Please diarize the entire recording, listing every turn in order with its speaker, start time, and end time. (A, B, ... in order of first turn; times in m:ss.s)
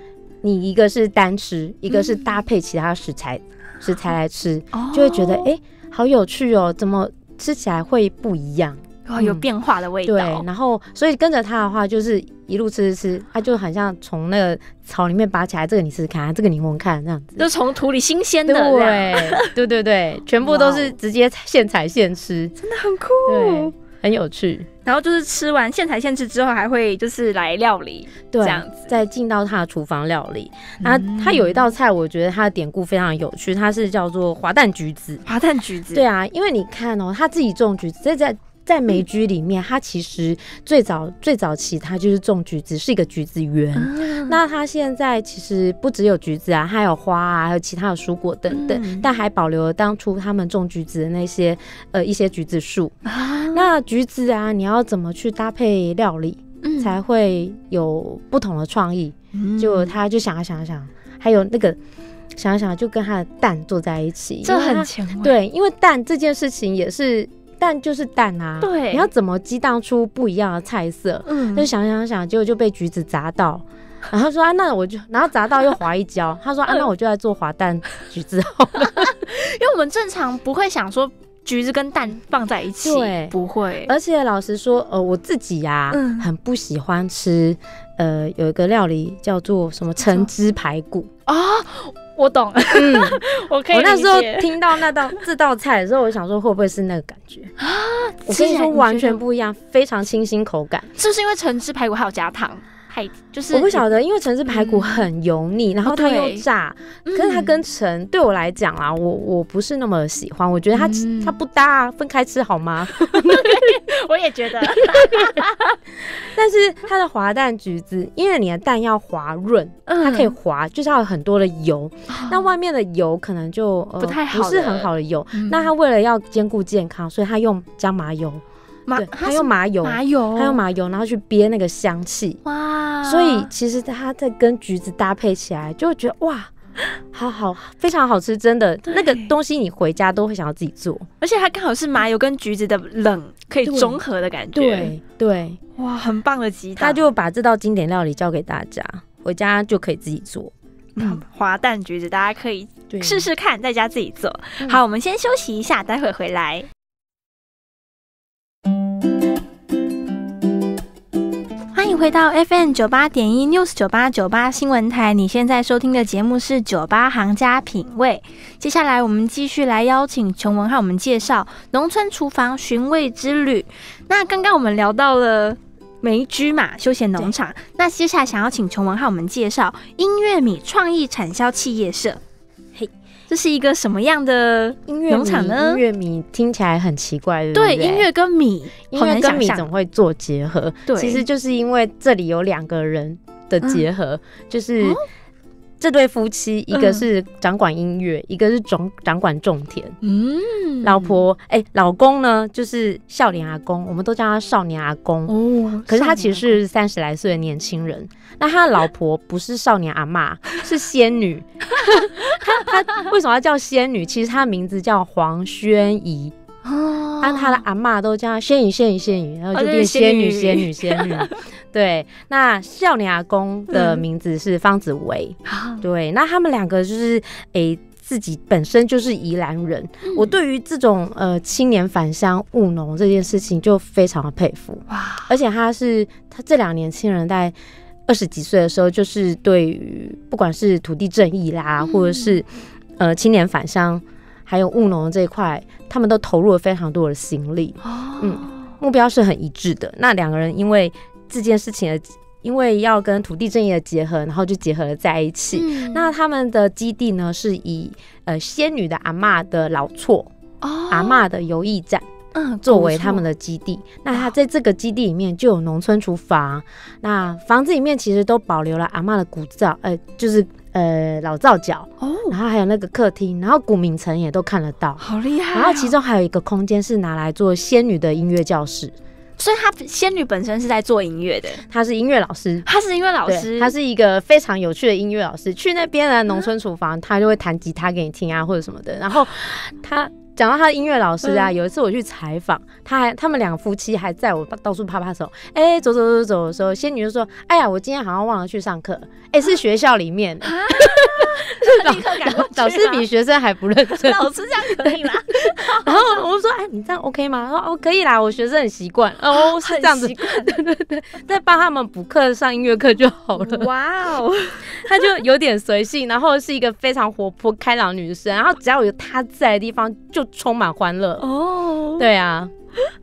0:00.4-0:09.5 A
0:01.9-0:02.3 B
0:04.7-0:05.5 B
0:09.1-0:10.5 B
0:10.0-0:17.5 A
0:17.4-0:19.5 B
0:18.5-0:22.5 A
0:20.4-0:21.0 B
0:22.6-0:23.7 B
0:23.3-0:24.7 A
0:24.8-0:28.9 B
0:28.3-0:35.2 A
0:30.8-0:31.6 B
0:35.3-0:36.0 B
0:35.9-0:53.0 A
0:43.8-0:44.4 B
0:48.5-0:49.1 B
0:53.0-0:53.6 B
0:53.5-1:01.8 A
0:56.6-0:56.9 B
0:59.3-0:59.9 B
1:02.4-1:19.1 A
1:04.4-1:05.4 B
1:08.6-1:09.1 B
1:11.3-1:11.7 B
1:18.9-1:23.9 B
1:22.8-1:31.1 A
1:25.9-1:26.3 B
1:31.3-1:35.2 B
1:32.8-1:33.2 A
1:33.7-1:37.5 A
1:37.6-1:39.2 B
1:38.3-1:40.9 A
1:41.0-1:43.9 B
1:43.5-1:53.7 A
1:44.5-1:45.1 B
1:45.8-1:46.4 B
1:47.1-1:47.6 B
1:50.7-1:51.4 B
1:53.0-1:55.8 B
1:54.8-1:55.3 A
1:56.3-2:08.4 A
1:59.9-2:00.3 B
2:02.1-2:02.5 B
2:04.0-2:05.7 B
2:08.9-2:10.6 B
2:09.0-2:12.4 A
2:12.4-2:13.5 B
2:13.0-2:16.5 A
2:17.1-2:21.1 A
2:18.9-2:19.3 B
2:21.2-2:25.0 B
2:23.6-2:24.0 A
2:24.6-2:25.6 A
2:25.8-2:27.1 B
2:26.8-2:31.2 A
2:31.0-2:36.7 B
2:32.9-2:33.3 A
2:41.7-3:02.2 B
3:03.3-3:05.8 B
3:04.9-3:08.1 A
3:07.5-3:09.7 B
3:08.9-3:15.0 A
3:10.9-3:11.2 B
3:15.8-3:20.0 A
3:16.7-3:17.0 B
3:20.0-3:21.2 B
3:20.8-3:25.4 A
3:25.3-3:26.6 B
3:25.9-3:36.3 A
3:36.6-3:37.6 B
3:37.2-3:57.6 A
3:39.5-3:41.4 B
3:43.7-3:44.0 B
3:45.5-3:45.8 B
3:50.0-3:50.4 B
3:54.9-3:55.3 B
3:58.1-4:02.5 A
4:01.8-4:02.4 B
4:03.0-4:20.3 A
4:07.8-4:08.7 B
4:15.5-4:16.1 B
4:20.6-4:21.2 B
4:20.9-4:22.0 A
4:22.3-4:23.2 B
4:22.6-4:38.9 A
4:32.0-4:32.4 B
4:35.0-4:35.9 B
4:39.4-4:41.6 B
4:41.7-4:42.7 A
4:42.7-4:43.7 B
4:43.3-5:13.7 A
4:51.2-4:51.5 B
5:00.4-5:03.1 B
5:03.9-5:06.2 B
5:09.3-5:10.5 B
5:13.4-5:15.0 B
5:14.7-5:21.2 A
5:21.2-5:22.1 B
5:22.0-5:22.5 A